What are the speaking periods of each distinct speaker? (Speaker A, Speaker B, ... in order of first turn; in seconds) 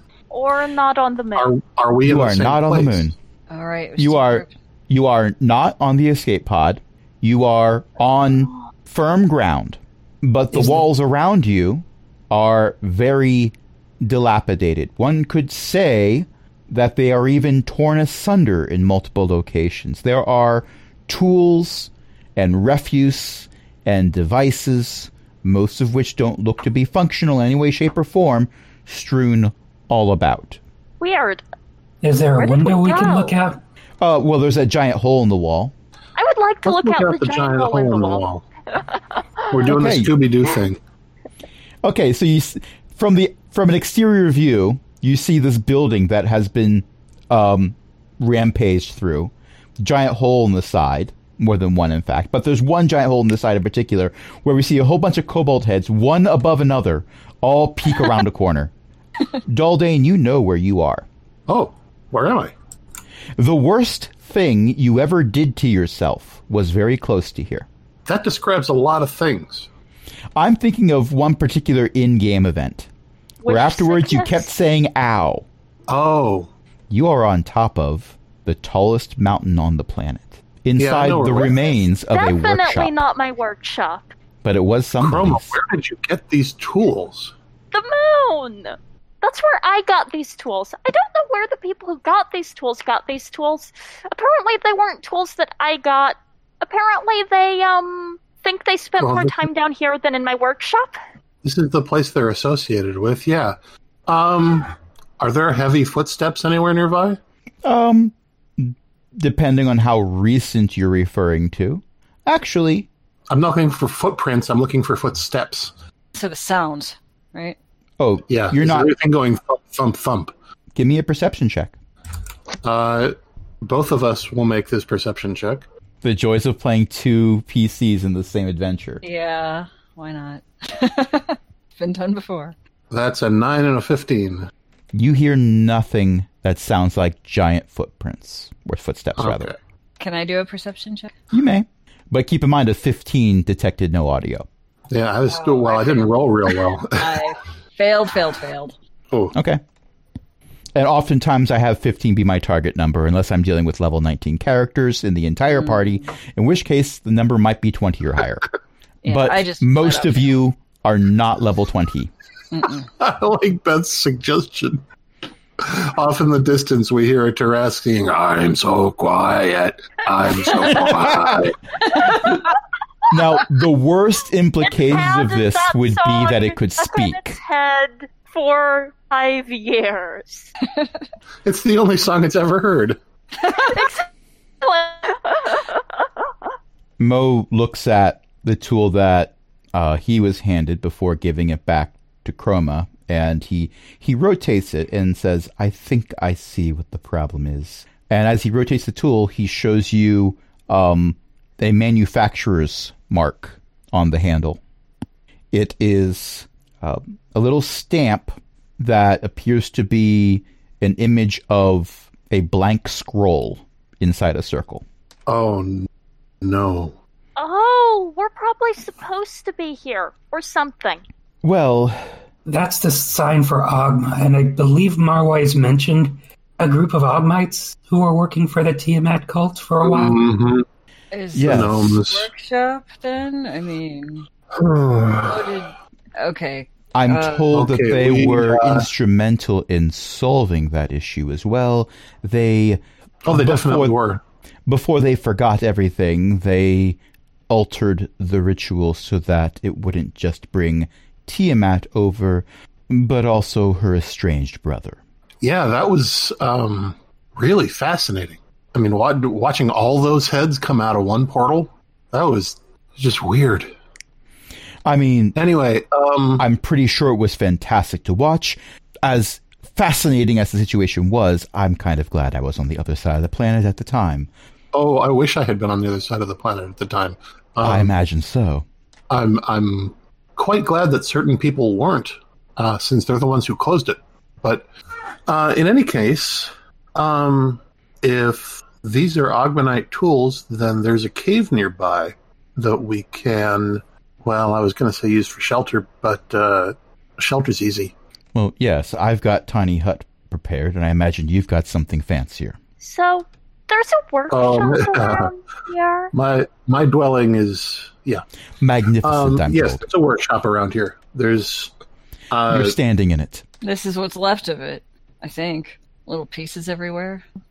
Speaker A: 0.3-1.5, 31.0-31.4, 32.4-33.4, 36.1-38.2, 38.8-39.5, 73.4-74.5, 82.1-84.1, 87.7-101.0, 174.7-180.5, 183.5-184.1, 184.6-185.8, 217.4-221.0, 302.8-306.1
Speaker B: 1.4-3.1, 36.6-38.4, 39.5-40.8, 61.5-62.5, 68.0-69.7, 75.9-76.5, 80.8-81.6, 85.0-87.3, 99.0-99.4, 101.4-103.5, 104.1-107.2, 113.3-115.7, 118.3-120.3, 122.6-125.6, 132.9-134.5, 139.2-139.6, 144.9-147.2, 163.0-164.8, 165.6-172.1, 181.4-183.0, 215.3-215.9, 216.4-216.9, 229.8-230.6, 231.4-232.3, 234.5-235.5, 237.5-238.9, 243.2-244.2, 255.4-263.7, 265.4-266.4, 274.7-277.9, 279.1-284.6, 285.3-297.9, 304.3-305.3, 306.1-308.2, 309.0-311.7, 312.3-312.8
Speaker C: 2.0-3.1, 4.0-30.6, 34.0-35.7, 39.7-40.1, 41.8-58.7, 59.4-61.0, 63.4-67.7, 70.3-72.9, 73.5-75.4, 76.9-83.0, 84.4-85.5, 107.6-112.9, 118.0-118.9, 120.7-121.7, 126.0-129.0, 134.9-139.5, 141.3-144.5, 149.3-149.6, 150.7-158.5, 159.0-162.1, 170.8-171.4, 173.1-177.4, 187.0-204.6, 205.5-214.8, 221.4-222.1, 231.3-232.0, 236.9-244.0, 244.7-255.0, 264.8-265.4, 266.4-274.3, 277.6-278.6, 298.3-302.6, 308.6-309.8, 312.5-313.4
Speaker D: 3.5-4.5, 116.1-117.6, 129.0-132.5, 140.0-141.1, 145.3-148.7, 155.5-156.0, 159.0-160.3, 162.5-162.8, 172.0-172.3, 231.1-234.3, 235.2-237.5, 313.6-317.2
Speaker E: 10.5-10.8, 32.0-33.6, 222.4-230.2